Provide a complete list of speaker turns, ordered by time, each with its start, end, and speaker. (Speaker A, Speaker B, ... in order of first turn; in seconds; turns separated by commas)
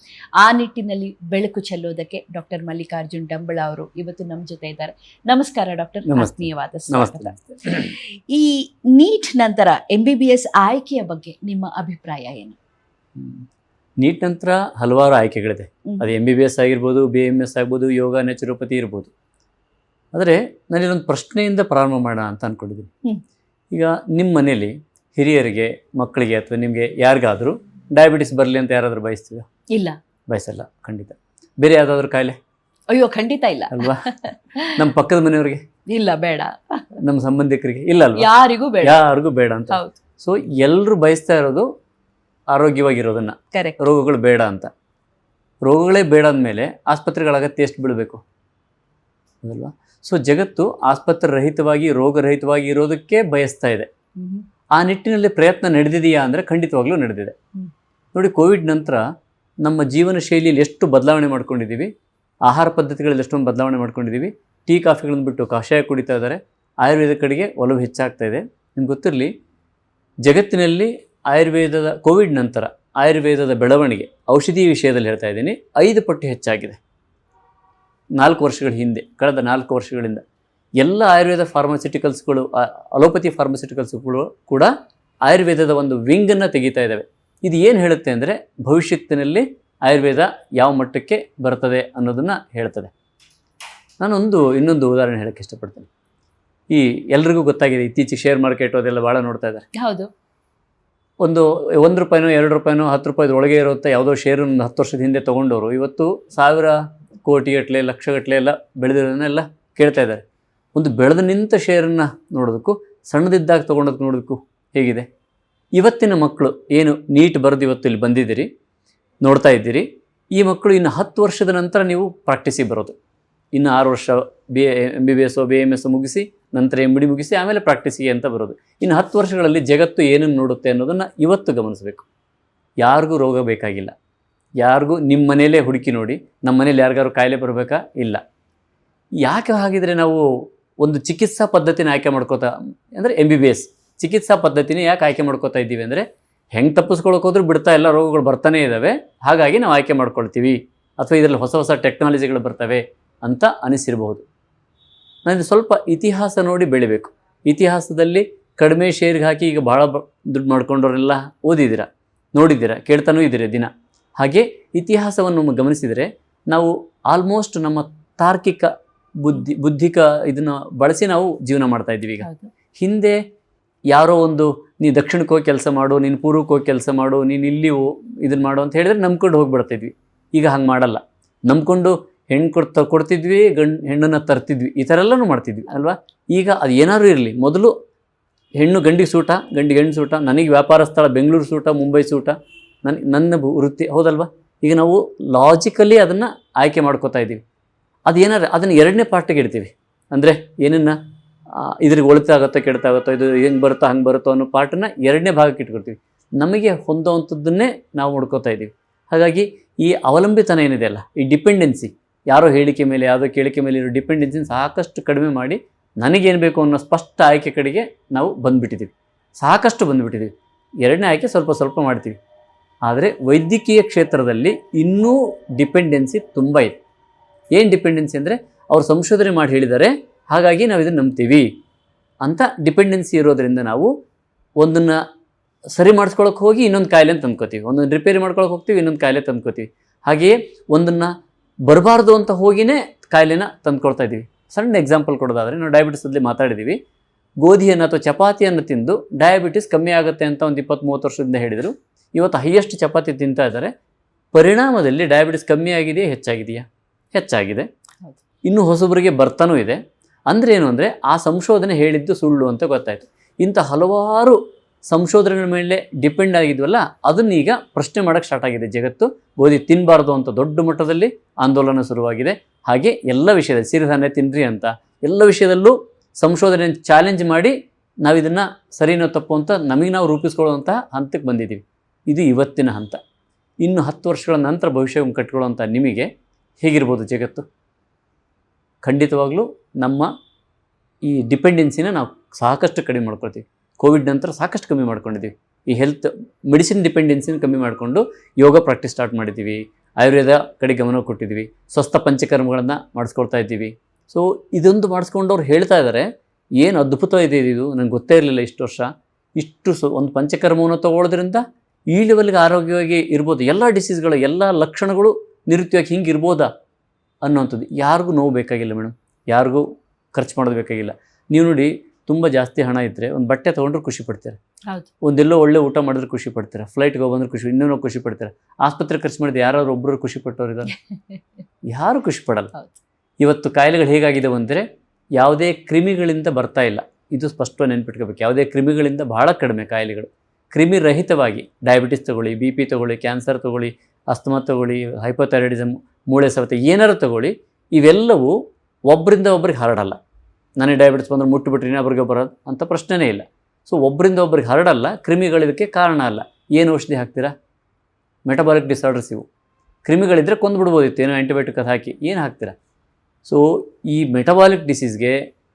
Speaker A: 0.4-12.6, Speaker B: 6.1-7.9, Speaker B: 13.2-13.4, Speaker B: 14.0-19.1, Speaker B: 20.1-22.9, Speaker B: 23.7-29.4, Speaker B: 30.3-32.4, Speaker A: 32.9-34.8, Speaker B: 33.7-34.0, Speaker B: 34.7-35.6, Speaker A: 35.9-36.8, Speaker B: 37.0-38.2, Speaker A: 38.1-39.0, Speaker B: 38.8-41.7, Speaker A: 39.7-40.0, Speaker B: 42.5-44.7, Speaker B: 45.6-48.2, Speaker B: 49.4-53.9, Speaker A: 54.2-54.4, Speaker B: 54.7-57.3, Speaker B: 58.1-59.0, Speaker B: 59.6-61.9, Speaker B: 62.5-69.3, Speaker B: 70.2-76.8, Speaker B: 78.2-80.2, Speaker B: 80.8-84.7, Speaker B: 85.2-92.9, Speaker B: 94.0-95.9, Speaker B: 96.7-99.7, Speaker A: 99.8-100.1, Speaker B: 101.2-110.2, Speaker B: 110.7-115.0, Speaker B: 115.7-118.5, Speaker B: 119.2-122.9, Speaker B: 123.5-132.1, Speaker B: 132.8-133.9, Speaker B: 134.6-138.2, Speaker B: 139.2-140.2, Speaker B: 140.8-154.2, Speaker B: 155.2-172.3, Speaker A: 172.2-172.5, Speaker B: 172.8-173.2, Speaker B: 173.9-187.7, Speaker B: 188.6-197.4, Speaker B: 198.1-200.9, Speaker B: 201.5-220.3, Speaker B: 220.8-222.2, Speaker B: 222.8-226.7, Speaker B: 227.5-231.5, Speaker B: 232.2-233.9, Speaker B: 234.6-234.9, Speaker B: 235.8-241.1, Speaker B: 241.7-246.8, Speaker B: 247.4-253.7, Speaker B: 254.3-257.6, Speaker B: 258.4-283.0, Speaker B: 283.6-286.1, Speaker B: 286.6-287.4, Speaker B: 288.8-290.1, Speaker B: 291.0-306.1, Speaker B: 306.6-316.5, Speaker B: 317.2-324.4, Speaker B: 325.0-330.7, Speaker B: 331.7-332.5, Speaker B: 333.2-348.4, Speaker B: 348.9-350.0, Speaker B: 350.6-357.3, Speaker B: 358.2-359.2, Speaker B: 359.9-362.5, Speaker B: 363.2-365.2